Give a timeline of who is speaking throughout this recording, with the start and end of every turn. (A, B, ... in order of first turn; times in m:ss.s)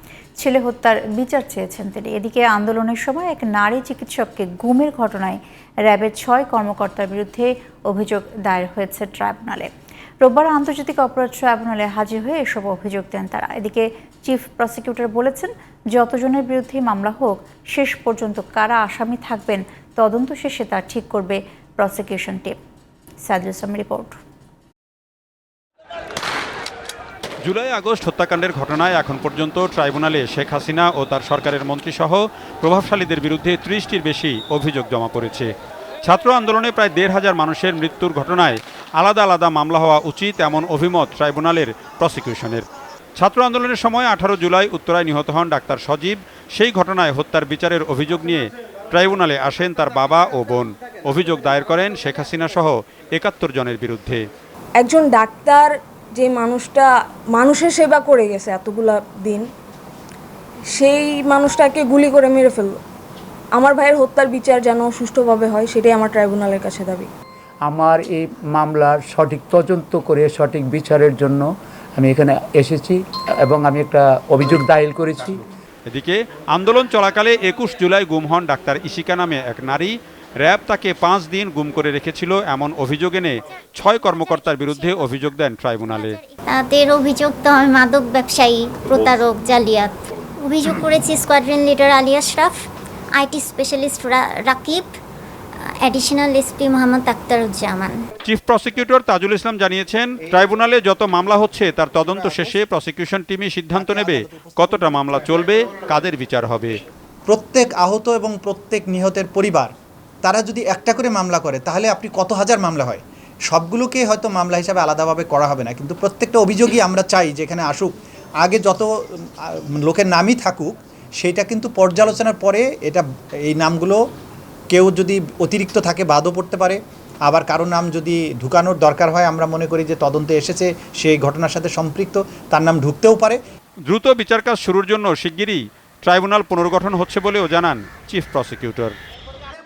0:00.4-0:22.6 A
0:23.2-0:24.2 A
0:27.4-0:35.5 B
0:36.0-0:42.6 B
0:43.2-0:54.2 B
0:54.8-0:59.5 C
1:00.7-1:02.8 C
1:03.5-1:07.1 C
1:07.6-1:15.4 D
1:15.9-1:26.2 B
1:25.9-1:35.0 E
1:35.8-1:38.0 E
1:38.2-1:46.8 B
1:42.1-1:42.5 F
1:43.7-1:45.1 F
1:47.3-1:49.7 F
1:50.2-1:57.9 F
1:58.4-2:04.0 F
2:04.7-2:13.4 F
2:13.9-2:18.9 B